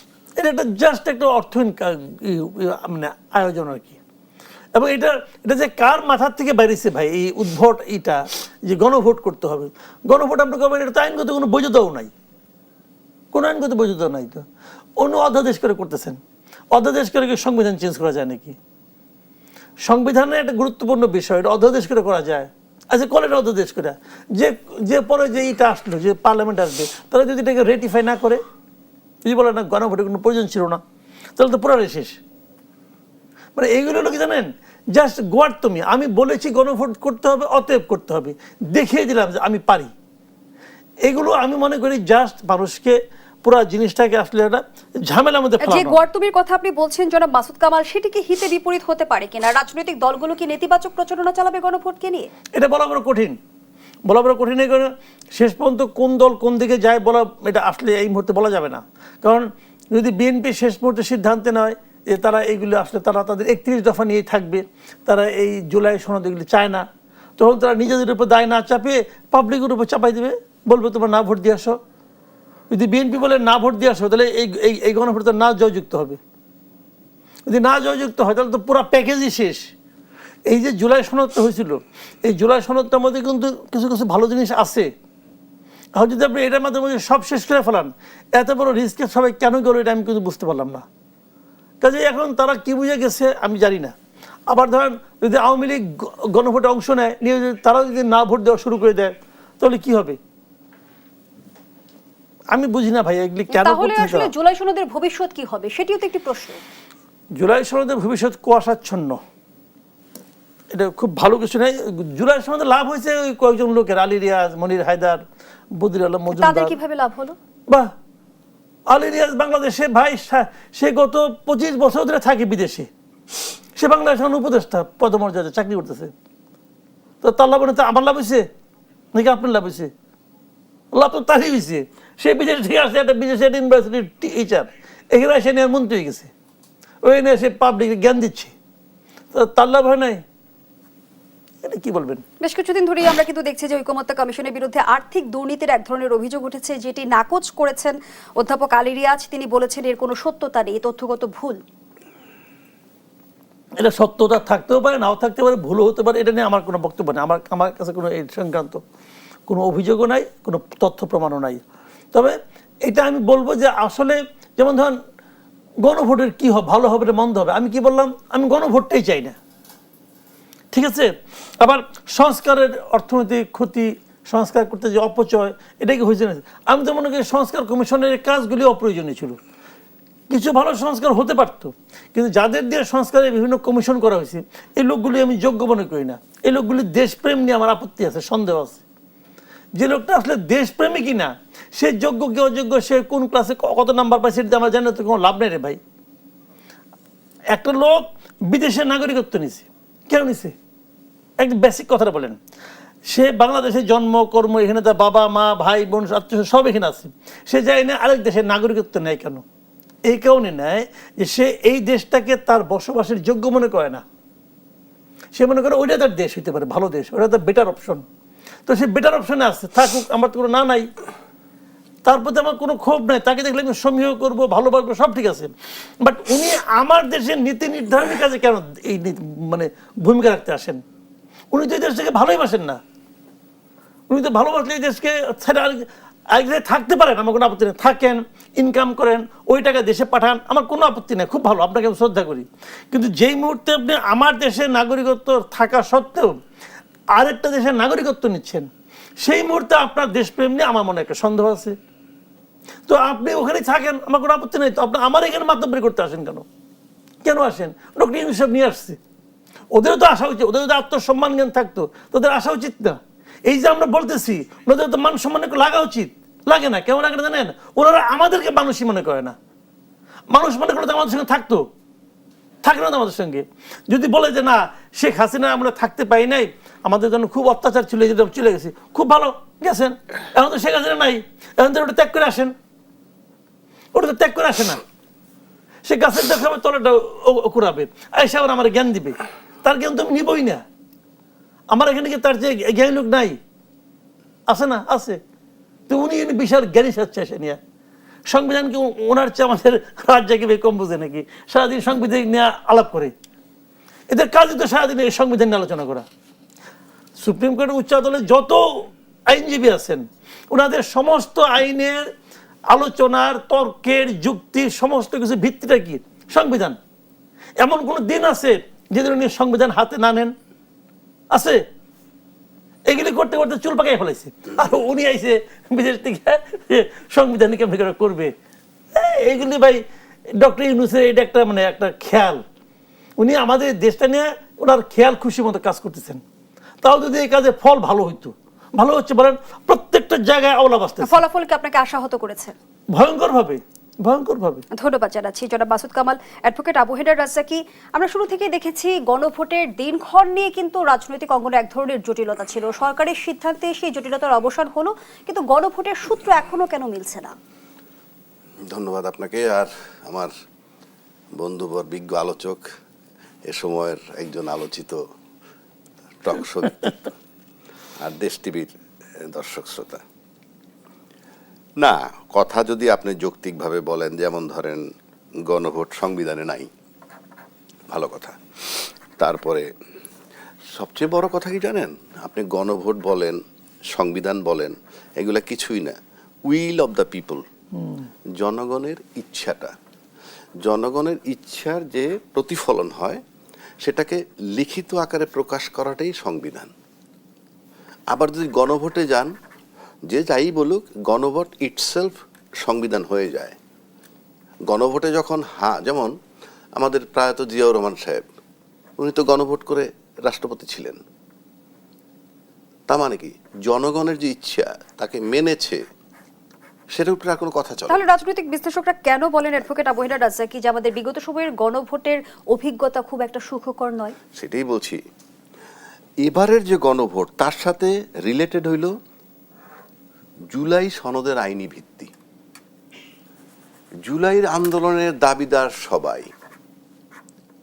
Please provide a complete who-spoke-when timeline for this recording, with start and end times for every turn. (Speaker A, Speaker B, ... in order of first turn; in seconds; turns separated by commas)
Speaker A: 0.4-4.0, Speaker A: 4.8-12.1, Speaker A: 13.3-14.4, Speaker A: 15.0-16.2, Speaker A: 16.7-18.6, Speaker A: 19.9-28.4, Speaker A: 29.3-30.8, Speaker A: 31.4-32.2, Speaker A: 33.6-39.9, Speaker A: 41.0-46.0, Speaker B: 45.6-52.3, Speaker A: 52.5-53.4, Speaker A: 54.1-66.8, Speaker A: 67.4-71.8, Speaker A: 72.7-76.2, Speaker A: 77.5-79.7, Speaker A: 80.5-84.9, Speaker A: 86.0-90.8, Speaker A: 91.8-93.9, Speaker A: 94.5-100.2, Speaker A: 102.5-104.3, Speaker B: 103.5-106.6, Speaker A: 107.4-109.2, Speaker A: 110.7-115.2, Speaker A: 115.8-116.8, Speaker B: 116.3-117.4, Speaker A: 118.9-122.9, Speaker A: 123.8-126.1, Speaker A: 127.2-128.5, Speaker A: 129.1-129.9, Speaker A: 130.9-136.3, Speaker A: 137.1-138.5, Speaker A: 139.3-140.2, Speaker A: 141.6-142.2, Speaker B: 142.4-151.6, Speaker A: 153.8-158.8, Speaker A: 159.5-161.6, Speaker A: 162.1-165.0, Speaker A: 165.8-169.4, Speaker A: 170.7-179.4, Speaker A: 180.3-188.8, Speaker A: 189.8-195.8, Speaker A: 197.5-200.5, Speaker A: 201.4-202.4, Speaker A: 203.1-209.4, Speaker A: 210.1-214.0, Speaker A: 215.3-218.0, Speaker A: 218.7-220.9, Speaker A: 222.1-230.8, Speaker A: 231.5-232.8, Speaker A: 234.1-246.4, Speaker A: 247.2-248.7, Speaker A: 249.2-251.8, Speaker A: 252.9-256.5, Speaker A: 257.2-259.0, Speaker A: 259.7-269.4, Speaker A: 270.3-271.7, Speaker A: 272.6-282.5, Speaker A: 283.9-284.8, Speaker A: 285.9-290.6, Speaker A: 291.7-293.4, Speaker A: 294.5-295.2, Speaker A: 295.9-297.6, Speaker A: 298.3-303.1, Speaker A: 304.1-306.1, Speaker A: 307.2-312.1, Speaker A: 312.7-316.8, Speaker A: 317.6-320.3, Speaker A: 321.3-321.6, Speaker A: 322.9-328.3, Speaker A: 328.9-332.4, Speaker A: 333.2-336.2, Speaker A: 336.8-341.2, Speaker B: 341.0-342.5, Speaker A: 342.9-344.6, Speaker B: 344.7-357.4, Speaker C: 358.7-360.3, Speaker C: 361.4-362.7, Speaker C: 363.5-365.0, Speaker C: 366.2-367.1, Speaker C: 368.0-370.0, Speaker C: 371.8-374.9, Speaker C: 375.5-376.7, Speaker C: 377.9-379.7, Speaker C: 380.7-383.4, Speaker C: 383.9-386.0, Speaker C: 386.5-387.4, Speaker A: 387.8-388.1, Speaker C: 388.4-389.7, Speaker C: 390.6-393.2, Speaker C: 393.8-396.7, Speaker C: 398.1-399.3, Speaker C: 400.1-403.6, Speaker C: 404.7-406.1, Speaker C: 406.8-408.2, Speaker C: 409.0-411.0, Speaker C: 412.9-415.8, Speaker C: 416.9-418.0, Speaker B: 417.9-424.2, Speaker C: 424.3-425.0, Speaker C: 426.2-428.9, Speaker C: 430.5-432.1, Speaker C: 434.1-436.3